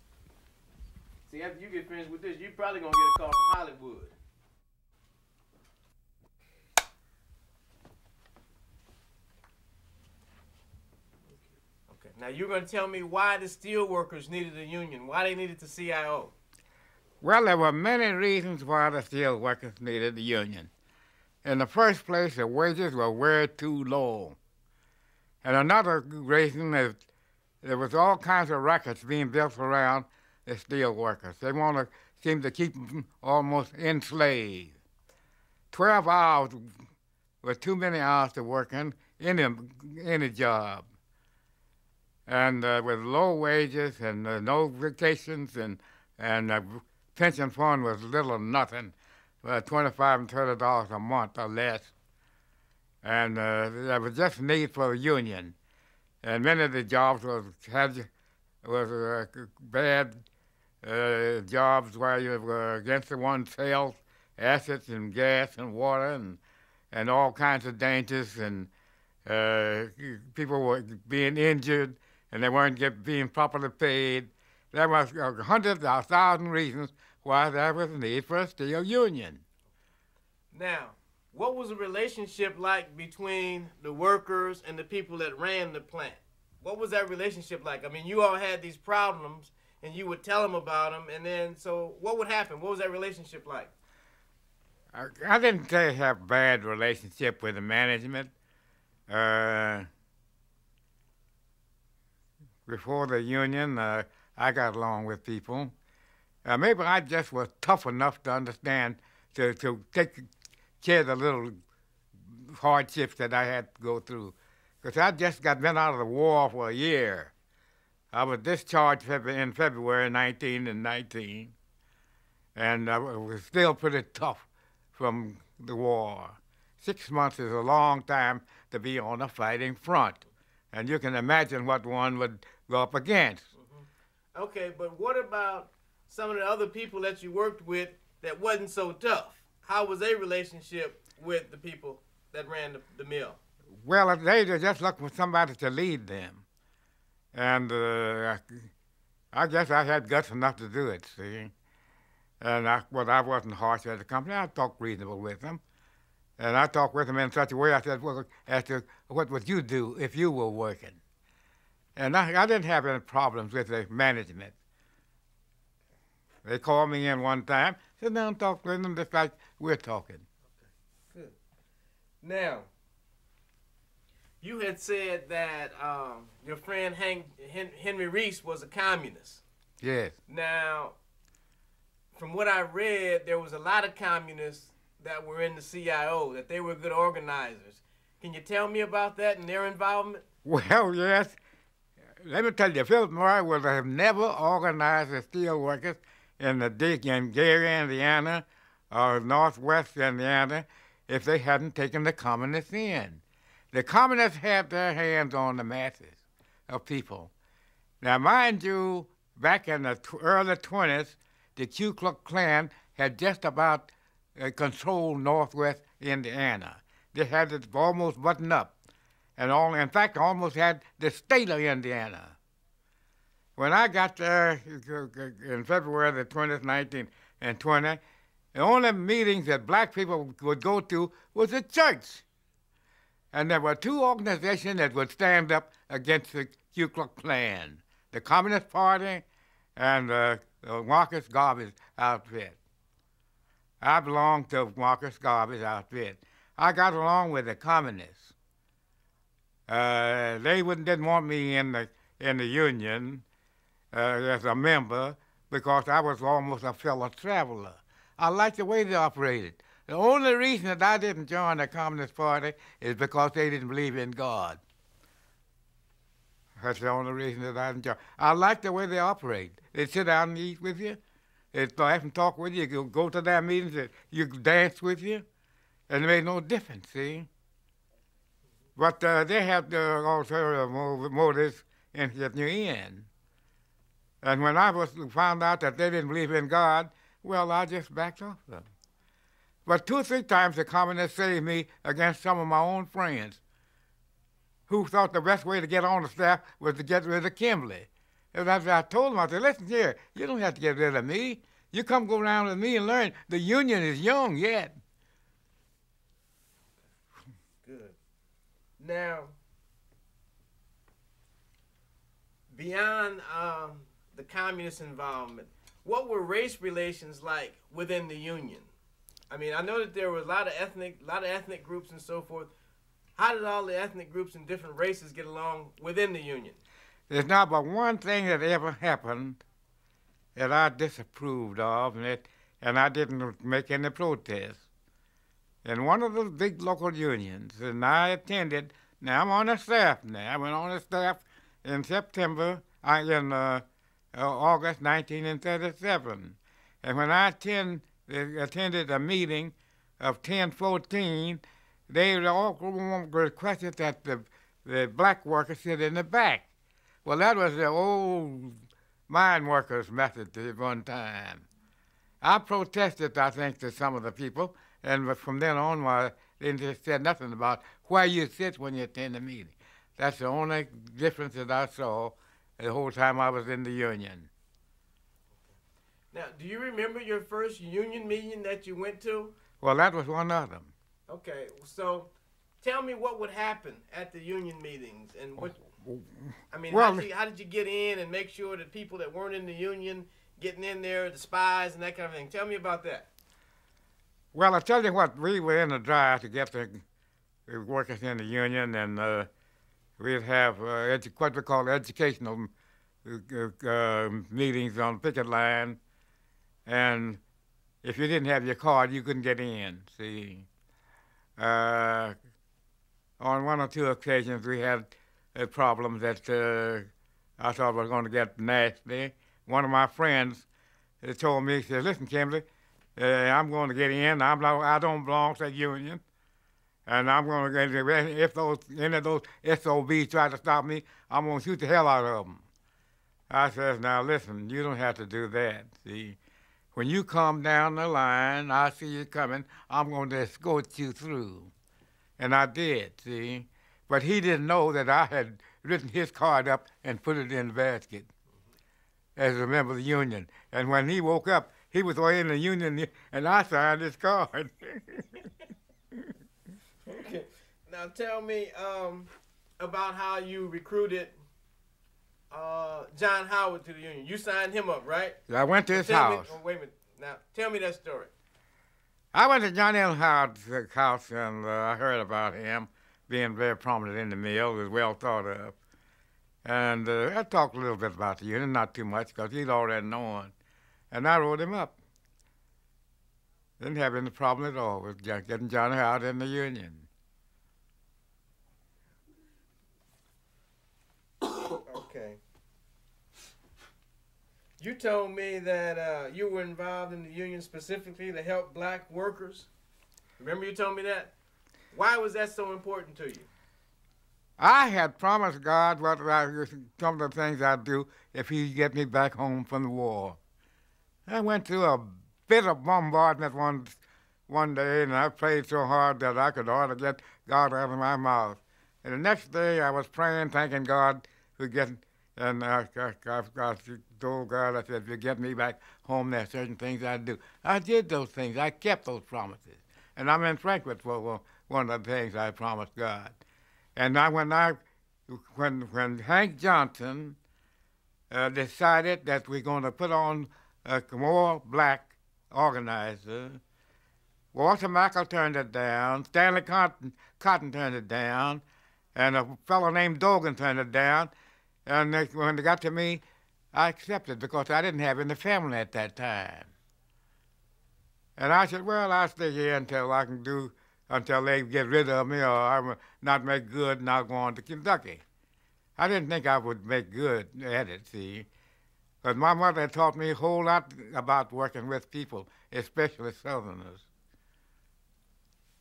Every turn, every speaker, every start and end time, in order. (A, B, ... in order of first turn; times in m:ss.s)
0:01.3-0:04.1 A
0:11.9-0:16.3 A
0:17.2-0:20.7 B
0:21.4-0:24.4 B
0:25.4-0:27.0 B
0:27.6-0:34.7 B
0:35.7-0:36.7 B
0:37.4-0:40.8 B
0:42.3-0:51.9 B
0:53.0-0:55.5 B
0:56.2-0:58.1 B
0:58.6-1:00.2 B
1:00.8-1:06.4 B
1:06.9-1:08.7 B
1:09.2-1:19.4 B
1:20.5-1:33.7 A
1:34.9-1:38.3 B
1:39.1-1:39.9 B
1:42.7-1:45.7 B
1:46.4-1:50.3 B
1:50.8-1:51.5 B
1:52.3-1:57.3 B
1:58.1-2:01.5 B
2:02.5-2:13.5 B
2:13.6-2:23.4 A
2:23.8-2:26.4 B
2:27.3-2:28.7 B
2:29.3-2:31.5 B
2:32.4-2:35.6 B
2:36.4-2:41.0 B
2:42.0-2:44.5 B
2:46.4-2:50.2 B
2:52.2-2:52.7 A
2:54.4-2:59.4 A
2:59.8-3:00.2 B
3:00.3-3:01.0 A
3:02.1-3:10.2 A
3:10.4-3:11.4 B
3:12.2-3:27.3 B
3:28.0-3:38.7 B
3:39.4-3:42.4 B
3:43.6-3:48.0 B
3:48.5-3:52.2 B
3:53.3-3:59.2 B
3:59.8-4:02.6 B
4:03.8-4:08.3 B
4:09.7-4:13.2 B
4:13.9-4:24.6 B
4:26.6-4:31.0 B
4:31.5-4:35.2 B
4:35.9-4:37.3 B
4:38.8-4:43.1 B
4:44.2-4:48.7 B
4:49.6-4:53.4 B
4:54.7-5:04.8 B
5:07.6-5:08.0 A
5:08.8-5:09.4 A
5:12.5-5:18.7 A
5:19.3-5:22.5 A
5:23.2-5:26.6 A
5:27.1-5:29.4 B
5:30.3-5:34.6 B
5:35.6-5:56.5 B
5:57.0-6:01.4 B
6:02.2-6:14.3 B
6:16.1-6:19.3 A
6:19.6-6:20.7 B
6:21.1-6:25.6 A
6:25.4-6:27.1 B
6:26.5-6:33.1 A
6:34.3-6:36.8 B
6:37.5-6:39.3 B
6:40.0-6:42.5 B
6:43.0-6:45.8 B
6:46.6-6:47.2 B
6:47.8-6:50.5 B
6:51.4-6:52.2 B
6:53.2-7:00.4 B
7:01.0-7:06.0 B
7:06.8-7:12.4 B
7:13.3-7:16.2 B
7:16.7-7:21.5 B
7:22.2-7:28.1 B
7:29.2-7:35.3 B
7:36.9-7:41.1 A
7:42.3-7:45.2 A
7:45.3-7:46.4 B
7:45.7-7:48.1 A
7:49.1-7:55.5 B
7:56.4-8:00.3 B
8:00.9-8:01.8 B
8:03.6-8:06.9 B
8:11.5-8:12.2 A
8:14.6-8:19.5 A
8:20.2-8:21.1 A
8:21.7-8:23.3 A
8:24.4-8:30.2 B
8:31.1-8:53.2 B
8:53.8-8:57.2 B
8:58.1-9:03.4 B
9:04.3-9:08.4 B
9:08.9-9:11.1 B
9:11.6-9:16.5 B
9:18.2-9:25.0 B
9:25.8-9:28.3 B
9:29.0-9:33.8 B